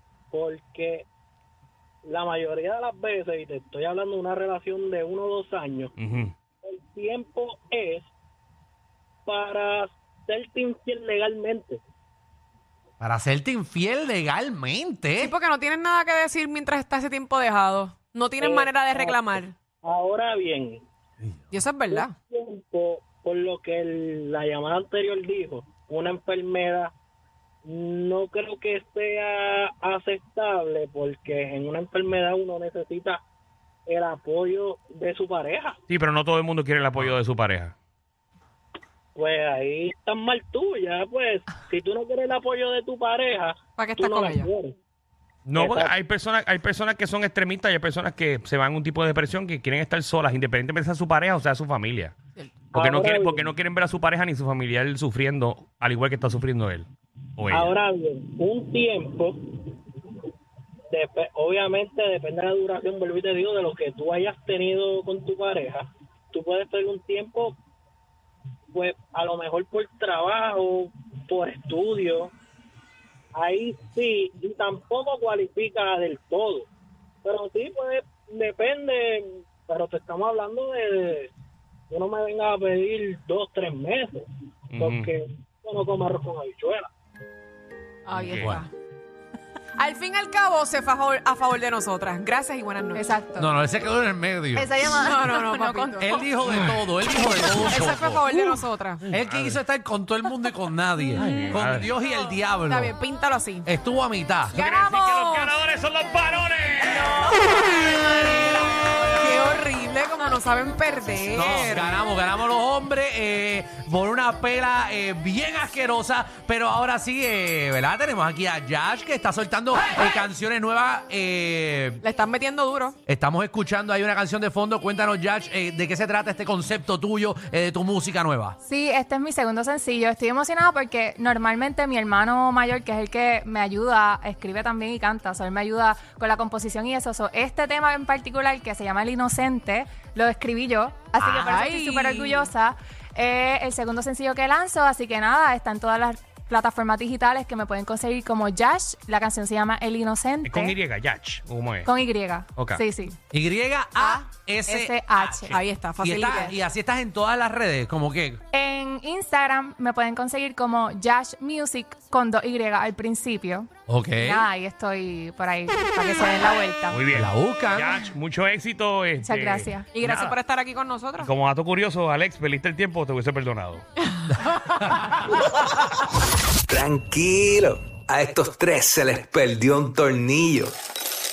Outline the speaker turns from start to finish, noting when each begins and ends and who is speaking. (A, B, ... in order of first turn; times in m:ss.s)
0:00.3-0:01.0 A
0:02.0-0:05.9 A
0:06.0-0:06.3 B
0:06.6-0:08.1 A
0:09.2-0:11.8 A
0:13.0-0:15.3 C
0:15.2-0:19.5 D
0:18.4-0:20.8 A
0:21.5-0:22.1 D
0:21.9-0:26.9 A
0:27.6-0:33.2 A
0:33.9-0:35.8 A
0:35.9-0:37.7 B
0:39.1-0:44.7 A
0:43.8-0:44.5 D
0:45.5-0:52.1 B
0:45.6-0:45.9 A
0:52.7-0:53.5 A
0:52.8-0:57.7 B
0:57.5-0:59.7 A
1:00.9-1:07.5 A
1:08.7-1:12.3 A
1:13.3-1:16.7 A
1:17.2-1:21.3 A
1:21.9-1:24.2 A
1:24.7-1:25.1 B
1:24.8-1:26.9 A
1:28.0-1:28.7 D
1:28.1-1:28.6 B
1:28.3-1:28.6 C
1:29.8-1:33.0 D
1:32.9-1:33.5 E
1:33.4-1:34.7 C
1:34.5-1:36.2 E
1:35.0-1:36.2 D
1:36.0-1:42.9 C
1:36.5-1:36.8 B
1:37.6-1:39.0 D
1:39.1-1:39.6 B
1:41.2-1:42.0 B
1:42.6-1:43.7 D
1:43.6-1:44.6 C
1:44.5-1:45.6 D
1:44.5-1:47.6 B
1:47.2-1:47.7 D
1:49.2-1:51.9 D
1:51.2-2:02.0 C
2:02.0-2:03.0 D
2:03.0-2:08.6 C
2:08.7-2:30.8 E
2:21.2-2:22.5 D
2:30.4-2:31.9 B
2:31.8-2:33.2 E
2:32.5-2:32.8 B
2:33.3-2:38.4 C
2:34.0-2:35.6 E
2:35.5-2:36.5 D
2:38.5-2:47.0 E
2:43.9-2:44.5 C
2:46.9-2:50.4 B
2:47.1-2:48.0 C
2:49.2-2:49.9 E
2:49.9-2:51.3 D
2:51.2-2:53.8 B
2:54.3-2:55.2 C
2:56.7-3:00.8 F